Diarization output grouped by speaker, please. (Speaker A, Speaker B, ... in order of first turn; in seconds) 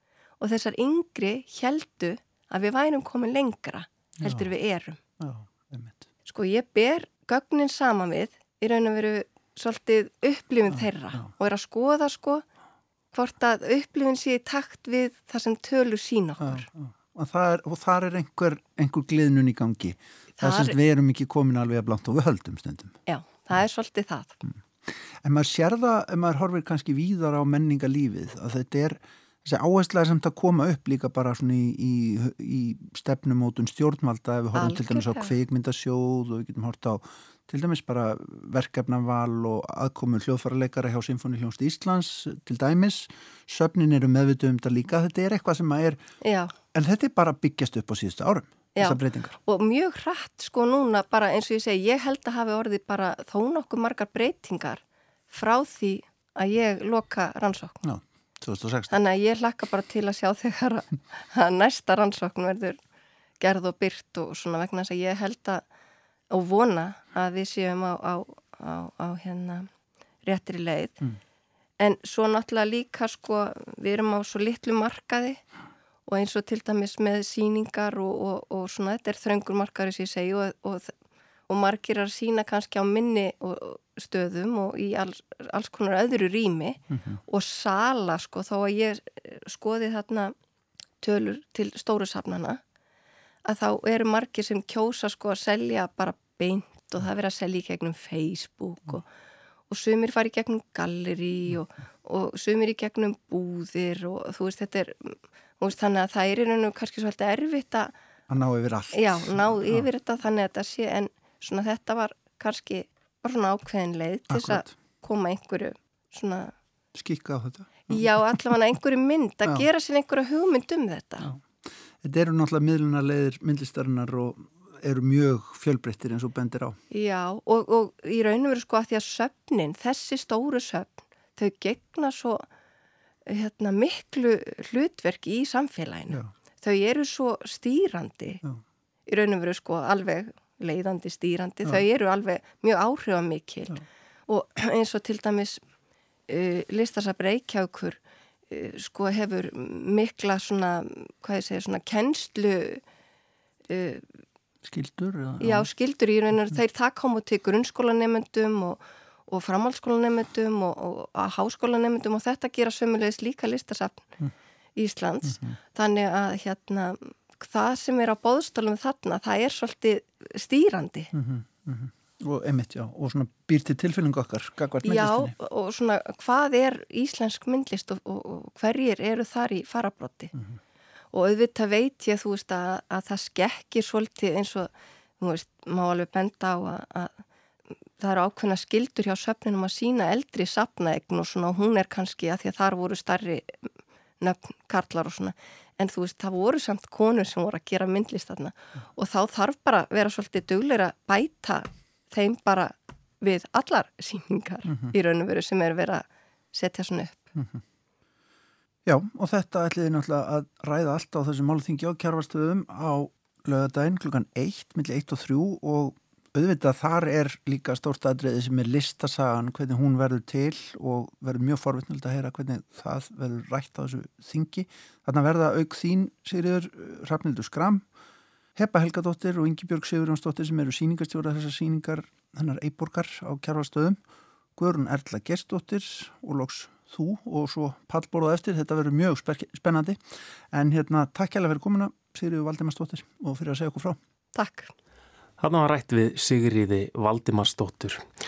Speaker A: 0.4-5.0, 6.2-12.4, 13.1-16.6, 20.4-20.7, 23.1-24.4, 34.5-35.3, 46.2-46.5, 48.8-57.8, 58.9-62.8, 63.4-65.6, 66.3-69.7, 70.2-71.0, 71.8-75.4, 76.0-80.9, 81.5-90.3, 91.0-92.6, 93.4-99.0, 99.7-107.9, 108.9-116.5, 117.9-121.3, 126.9-132.5, 133.3-138.4, 139.1-145.6, 146.3-148.0, 148.5-152.8, 153.7-154.1, 155.4-164.0, 164.8-171.1, 174.8-180.3, 181.1-187.2, 188.0-193.6, 194.2-207.3, 244.3-244.7
Speaker B: 4.2-4.5, 5.2-6.1, 10.7-11.3, 16.4-23.0, 24.8-46.0, 46.7-49.3, 57.8-58.9, 86.9-87.2, 108.3-109.9, 114.3-114.7, 116.9-118.1, 122.0-126.8, 154.6-155.7, 165.3-165.6, 171.1-175.3, 204.7-204.9, 207.3-207.6, 208.8-227.8, 228.6-234.0, 234.6-240.0, 240.5-244.0
Speaker C: 245.4-248.1